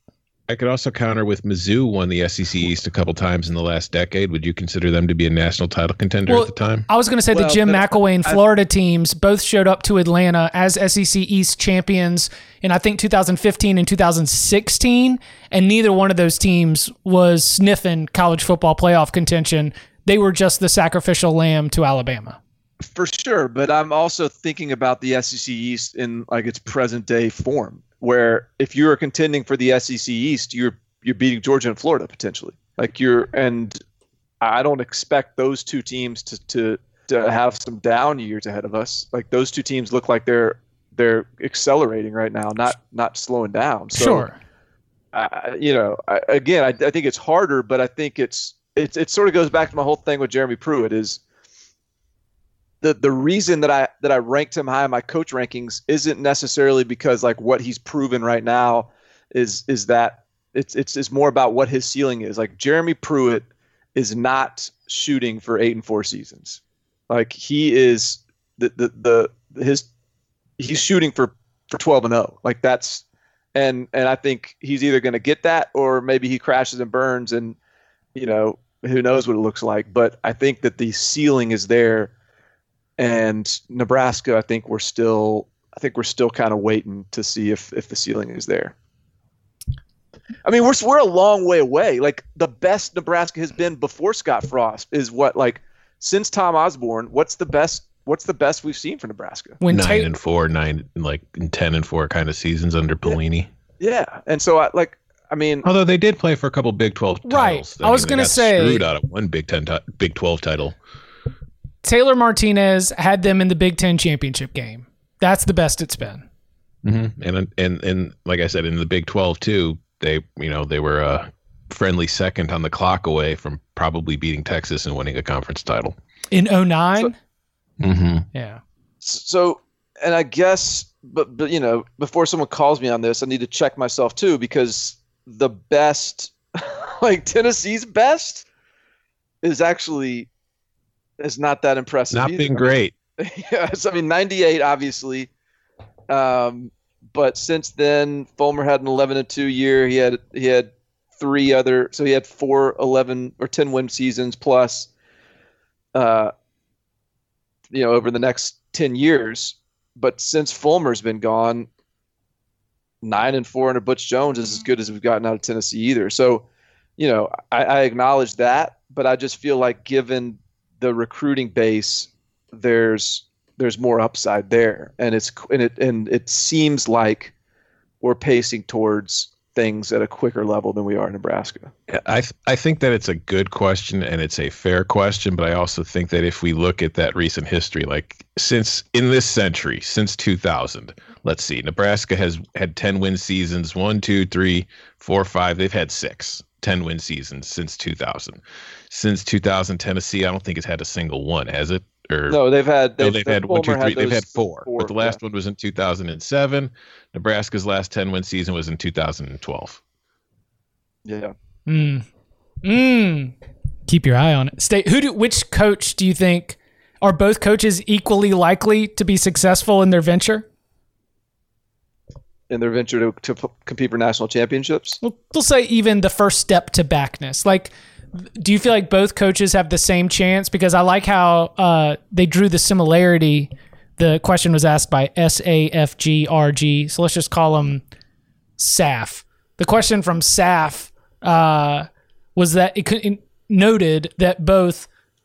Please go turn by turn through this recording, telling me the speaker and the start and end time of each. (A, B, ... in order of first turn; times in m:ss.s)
0:00.5-0:06.9 A
0:06.3-0:22.4 B
0:07.3-0:08.4 C
0:22.8-0:33.8 C
0:34.4-0:44.3 C
0:43.9-0:44.4 B
0:45.1-0:51.2 C
0:52.8-1:09.9 C
1:10.6-1:13.0 C
1:13.6-1:17.6 C
1:18.1-1:22.1 C
1:23.0-1:28.7 C
1:30.4-1:39.6 C
1:39.6-1:40.1 B
1:39.7-1:43.5 A
1:43.8-1:45.6 C
1:45.6-1:50.7 A
1:47.2-1:48.8 B
1:51.8-1:56.2 B
1:56.8-2:05.9 A
2:06.3-2:07.1 B
2:07.8-2:08.2 A
2:08.3-2:08.6 B
2:09.0-2:18.4 C
2:19.4-2:20.3 C
2:21.2-2:25.3 C
2:22.1-2:22.9 A
2:26.1-2:34.9 C
2:35.9-2:36.3 C
2:37.7-2:41.7 C
2:43.0-2:46.4 C
2:47.0-2:57.3 C
2:58.0-3:01.7 C
3:01.9-3:22.4 A
3:22.3-3:25.2 C
3:23.0-3:29.8 A
3:31.0-3:31.3 C
3:31.7-3:32.0 B
3:32.6-3:33.3 B
3:33.9-3:40.4 B
3:42.5-3:45.0 C
3:45.0-3:57.8 B
3:58.6-4:04.9 B